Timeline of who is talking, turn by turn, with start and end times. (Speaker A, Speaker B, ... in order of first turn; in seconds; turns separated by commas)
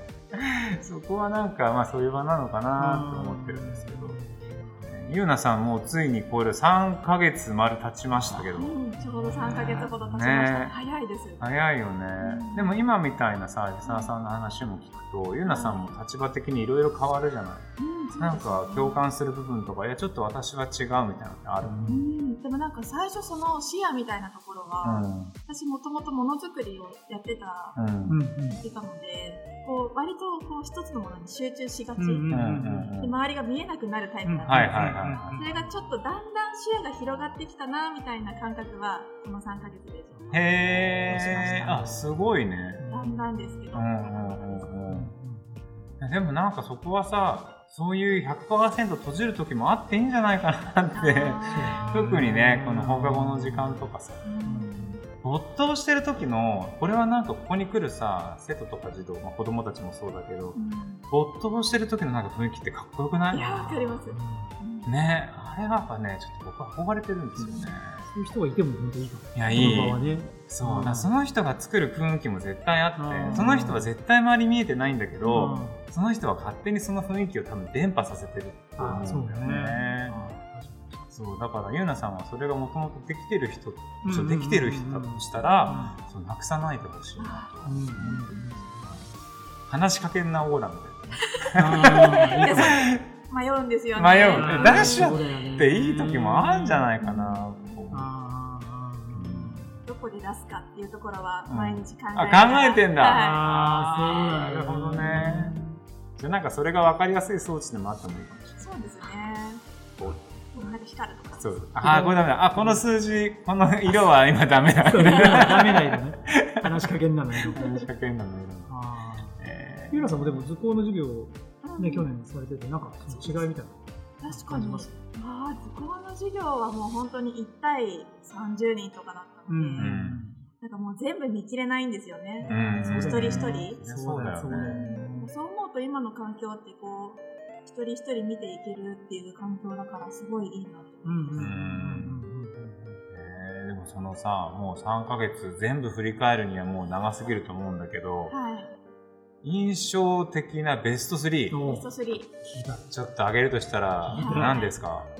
Speaker A: 0.3-4.2, Speaker B: 2.8-4.9, Speaker A: 4.8-8.8, Speaker C: 8.5-11.4, Speaker B: 9.0-9.9, Speaker A: 9.4-10.8, Speaker A: 11.4-21.8, Speaker C: 12.2-12.7, Speaker C: 13.8-14.1, Speaker C: 15.4-16.0, Speaker C: 17.8-19.1, Speaker B: 21.6-22.0, Speaker C: 21.9-27.8, Speaker A: 24.8-25.3, Speaker A: 27.8-28.2, Speaker B: 28.1-28.6, Speaker C: 28.6-32.3, Speaker B: 32.0-32.9, Speaker A: 32.3-33.1, Speaker C: 33.0-40.4, Speaker B: 34.2-35.7, Speaker A: 34.5-35.4, Speaker B: 40.1-43.7, Speaker A: 40.3-42.8, Speaker C: 41.3-41.7, Speaker C: 42.9-44.7, Speaker A: 43.7-45.1, Speaker B: 44.9-45.9, Speaker A: 46.0-54.2, Speaker C: 50.9-51.9, Speaker B: 51.5-53.9, Speaker C: 54.2-55.0, Speaker B: 54.4-55.0, Speaker A: 55.2-60.6, Speaker C: 60.5-61.1, Speaker A: 61.1-64.0, Speaker C: 63.3-64.9, Speaker B: 64.1-64.6, Speaker A: 64.8-68.0, Speaker C: 67.4-67.7, Speaker B: 67.4-71.1, Speaker A: 69.3-80.3, Speaker C: 69.5-70.2, Speaker B: 73.0-73.9, Speaker B: 75.2-75.8, Speaker B: 78.8-81.1, Speaker A: 81.1-89.0, Speaker B: 84.0-86.0, Speaker C: 85.4-85.9, Speaker C: 87.2-88.5, Speaker B: 87.6-89.1, Speaker A: 89.6-93.0, Speaker C: 91.2-95.1, Speaker B: 91.5-92.8, Speaker A: 94.0-98.1, Speaker B: 94.3-96.9, Speaker C: 97.0-97.8, Speaker B: 97.9-99.8, Speaker A: 99.1-99.7, Speaker C: 99.8-103.4, Speaker A: 101.5-105.6, Speaker B: 103.1-105.8, Speaker A: 106.2-108.6, Speaker C: 108.6-109.7, Speaker A: 110.0-110.4, Speaker C: 110.5-111.7, Speaker A: 111.4-116.7, Speaker B: 111.8-112.8, Speaker B: 114.8-117.7, Speaker C: 115.0-115.5, Speaker A: 117.5-118.8, Speaker C: 117.5-117.9, Speaker B: 118.7-125.0, Speaker A: 119.3-120.4, Speaker C: 121.6-122.1, Speaker C: 123.1-123.5, Speaker C: 124.2-129.9, Speaker B: 129.5-130.4, Speaker A: 129.8-130.2, Speaker C: 130.6-133.8, Speaker B: 132.4-135.3, Speaker A: 132.5-134.8, Speaker C: 134.5-141.5, Speaker B: 141.0-143.0, Speaker A: 141.3-142.3, Speaker A: 143.1-148.3, Speaker C: 148.3-148.7, Speaker A: 149.4-151.6, Speaker B: 151.5-152.9, Speaker C: 151.6-152.3, Speaker A: 152.9-155.1, Speaker B: 154.0-154.6, Speaker C: 154.1-154.7